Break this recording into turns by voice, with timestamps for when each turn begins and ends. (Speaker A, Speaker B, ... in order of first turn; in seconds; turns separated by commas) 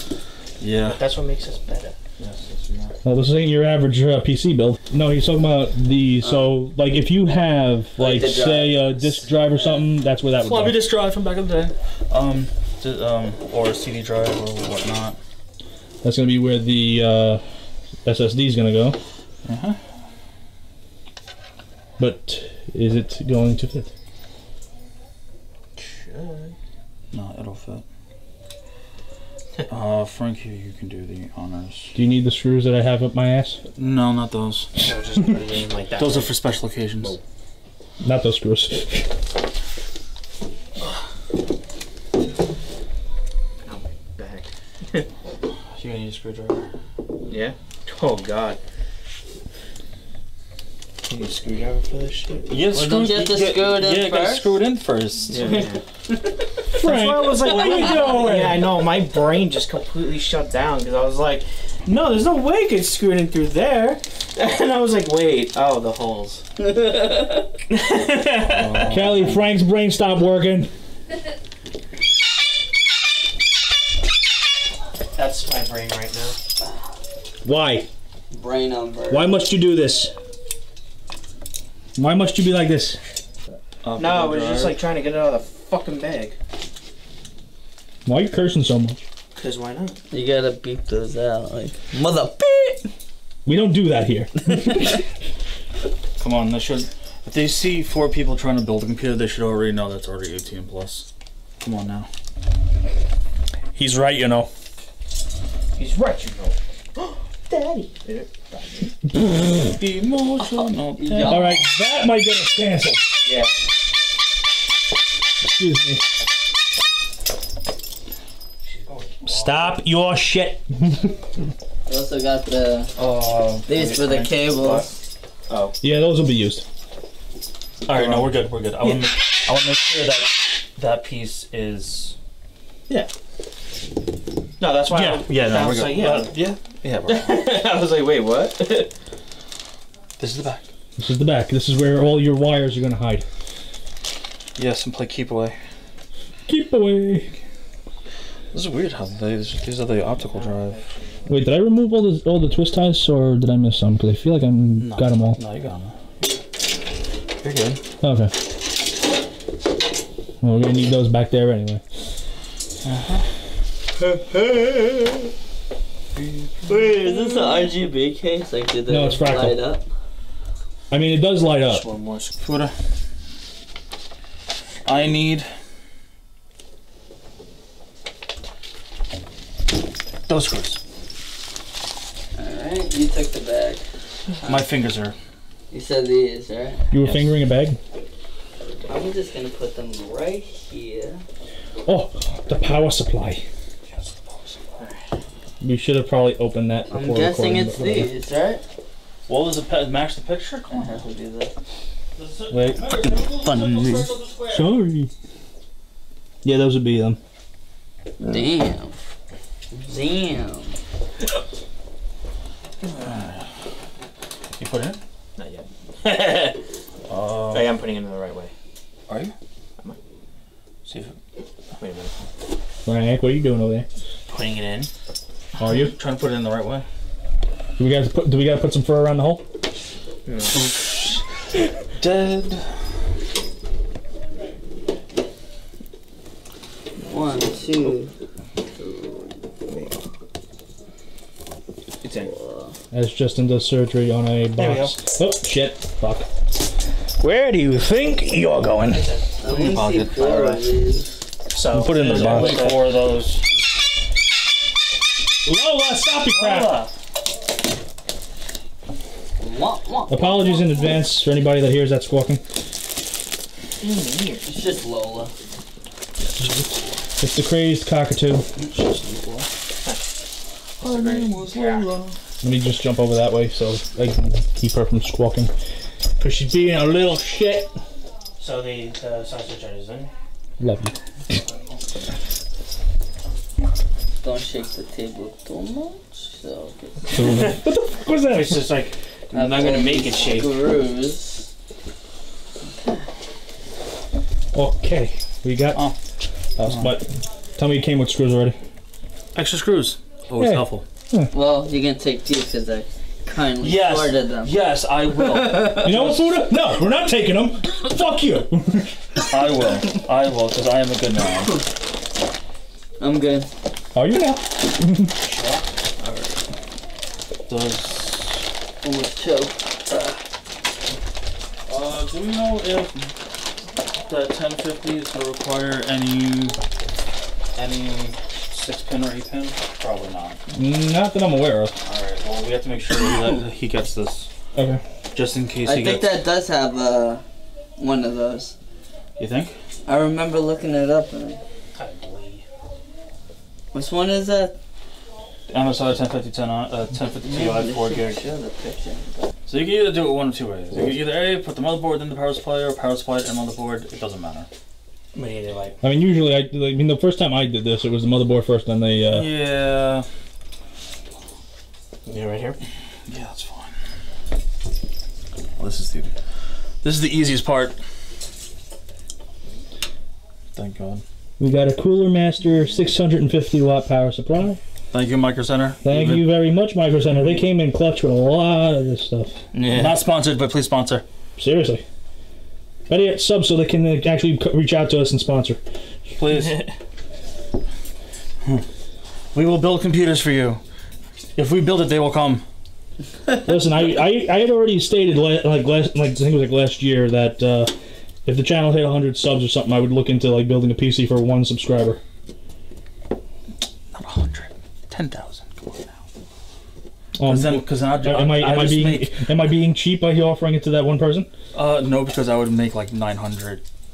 Speaker A: 0.6-1.0, Speaker B: 0.8-1.9, Speaker A: 2.2-3.0, Speaker C: 3.0-10.9, Speaker D: 8.0-8.9, Speaker A: 10.3-15.2, Speaker C: 16.0-17.4, Speaker C: 18.0-19.0, Speaker A: 19.4-19.8, Speaker C: 22.0-23.9, Speaker B: 25.8-26.6, Speaker A: 27.1-27.8, Speaker A: 29.7-31.9, Speaker C: 31.9-33.6, Speaker A: 33.7-34.7, Speaker B: 34.8-36.4, Speaker A: 36.0-37.1, Speaker B: 37.0-37.2, Speaker C: 38.0-39.1, Speaker B: 43.6-45.1, Speaker A: 45.7-46.7, Speaker B: 47.2-48.6, Speaker B: 51.1-52.5, Speaker A: 52.5-55.7, Speaker D: 52.7-54.6, Speaker B: 55.3-55.8, Speaker B: 56.8-66.4, Speaker C: 56.8-58.7, Speaker D: 57.4-58.2, Speaker D: 66.6-67.5, Speaker B: 67.7-69.2, Speaker A: 68.4-69.4, Speaker C: 68.9-70.7, Speaker B: 75.1-76.4, Speaker C: 77.4-77.9, Speaker D: 78.3-79.4, Speaker C: 79.1-80.1, Speaker C: 82.0-83.0, Speaker A: 83.8-84.8, Speaker B: 84.0-86.4, Speaker C: 88.0-89.0, Speaker B: 89.3-90.0, Speaker D: 90.1-92.8, Speaker C: 93.5-94.9, Speaker A: 96.2-101.1, Speaker A: 101.6-102.1, Speaker C: 103.7-104.5, Speaker B: 105.7-108.9, Speaker A: 109.2-111.6, Speaker D: 110.6-111.6, Speaker C: 111.2-113.1, Speaker B: 113.2-113.6, Speaker C: 115.4-116.0, Speaker B: 118.6-119.8, Speaker C: 119.2-121.1, Speaker D: 121.9-122.9, Speaker A: 123.0-124.4, Speaker D: 123.7-124.9, Speaker B: 124.5-124.9, Speaker B: 125.5-125.8, Speaker C: 125.8-126.6, Speaker A: 127.8-132.1, Speaker B: 134.6-136.4, Speaker A: 134.9-137.6, Speaker B: 137.1-138.9, Speaker A: 140.2-140.7, Speaker C: 141.0-143.2, Speaker A: 144.6-145.6, Speaker C: 146.5-147.3, Speaker A: 148.5-150.8, Speaker B: 150.2-151.4, Speaker C: 151.2-155.4, Speaker A: 154.8-156.0, Speaker A: 157.4-157.8, Speaker C: 158.0-158.3, Speaker C: 160.4-161.8, Speaker A: 162.8-163.2, Speaker D: 164.3-165.2, Speaker A: 166.1-166.9, Speaker D: 166.7-169.8, Speaker B: 167.1-167.5, Speaker C: 168.9-169.6, Speaker C: 170.9-171.9, Speaker B: 171.7-172.3, Speaker A: 172.3-172.7, Speaker A: 174.8-175.5, Speaker A: 180.3-180.8, Speaker D: 182.3-183.8, Speaker A: 184.4-185.2, Speaker D: 185.7-186.9, Speaker C: 186.9-187.8, Speaker A: 187.0-187.3, Speaker D: 188.8-191.2, Speaker C: 191.8-193.4, Speaker A: 193.9-194.6, Speaker B: 194.8-195.1, Speaker C: 195.6-198.1, Speaker D: 196.9-198.6, Speaker A: 199.3-201.0, Speaker D: 200.7-201.5, Speaker A: 202.2-204.8, Speaker C: 202.5-202.9, Speaker D: 203.4-204.1, Speaker C: 204.5-205.1, Speaker C: 206.4-207.2, Speaker D: 208.2-208.9, Speaker D: 209.7-210.8, Speaker A: 212.8-213.5, Speaker A: 214.6-215.0, Speaker B: 215.3-216.6, Speaker A: 217.1-217.7, Speaker B: 217.5-218.5, Speaker A: 219.1-219.3, Speaker A: 220.8-221.2, Speaker B: 221.8-222.1, Speaker C: 222.8-223.9, Speaker B: 224.3-224.9, Speaker C: 225.6-225.9, Speaker A: 225.6-226.8, Speaker C: 227.8-229.4, Speaker B: 230.2-230.6, Speaker A: 230.5-231.2, Speaker A: 231.9-232.8, Speaker D: 237.0-238.1, Speaker D: 238.8-239.3, Speaker B: 242.0-242.3, Speaker D: 242.2-242.7, Speaker C: 242.9-246.2, Speaker B: 244.6-245.0, Speaker C: 247.2-249.1, Speaker D: 249.4-251.2, Speaker A: 249.4-250.6, Speaker B: 250.3-250.6, Speaker B: 251.5-253.0, Speaker C: 251.7-252.8, Speaker A: 251.9-253.4, Speaker C: 255.4-256.8, Speaker A: 256.3-256.9, Speaker D: 259.4-260.3, Speaker C: 260.1-262.4, Speaker B: 263.8-264.4, Speaker D: 264.4-265.3, Speaker C: 266.4-268.5, Speaker A: 268.6-269.5, Speaker B: 270.8-271.9, Speaker A: 270.8-272.1, Speaker C: 272.4-275.5, Speaker C: 276.2-277.7, Speaker B: 278.4-280.1, Speaker C: 280.6-280.9, Speaker A: 281.4-281.8, Speaker D: 284.2-286.8, Speaker C: 287.1-288.7, Speaker B: 288.3-290.5, Speaker D: 289.3-291.5, Speaker C: 294.5-295.8, Speaker C: 296.6-298.6, Speaker A: 296.6-296.9, Speaker A: 299.3-300.8, Speaker C: 300.4-301.3, Speaker D: 301.3-304.5, Speaker A: 303.6-306.4, Speaker D: 305.4-305.9, Speaker C: 305.6-308.9, Speaker A: 309.2-311.6, Speaker D: 313.0-313.5, Speaker C: 313.9-315.1, Speaker B: 315.2-315.6, Speaker A: 316.0-316.3, Speaker A: 317.5-318.4, Speaker D: 318.8-320.2, Speaker A: 321.6-323.1, Speaker A: 324.0-326.6, Speaker A: 327.5-330.4, Speaker C: 330.5-331.8, Speaker A: 331.8-334.3, Speaker C: 334.5-334.8, Speaker A: 335.1-336.1, Speaker D: 335.6-337.2, Speaker D: 337.8-338.5, Speaker A: 339.2-339.6, Speaker D: 339.9-341.4, Speaker B: 341.7-342.4, Speaker D: 343.7-344.6, Speaker A: 345.5-348.2, Speaker D: 347.2-349.3, Speaker A: 349.5-354.5, Speaker B: 355.1-355.8, Speaker C: 355.8-359.3, Speaker A: 359.0-360.1, Speaker B: 362.1-362.6, Speaker A: 363.1-363.7, Speaker A: 365.6-366.1, Speaker A: 366.8-367.8, Speaker A: 370.5-371.0, Speaker C: 371.4-374.6, Speaker A: 374.9-376.3, Speaker C: 375.8-379.4, Speaker A: 377.1-377.4, Speaker B: 379.6-379.9, Speaker A: 379.6-381.0, Speaker C: 381.4-381.8, Speaker C: 382.9-385.6, Speaker A: 386.2-386.7, Speaker A: 389.3-390.6, Speaker A: 391.4-392.4, Speaker C: 393.4-397.7, Speaker C: 398.2-402.0, Speaker A: 403.9-406.0, Speaker C: 407.2-411.3, Speaker A: 407.2-409.2, Speaker A: 411.5-413.6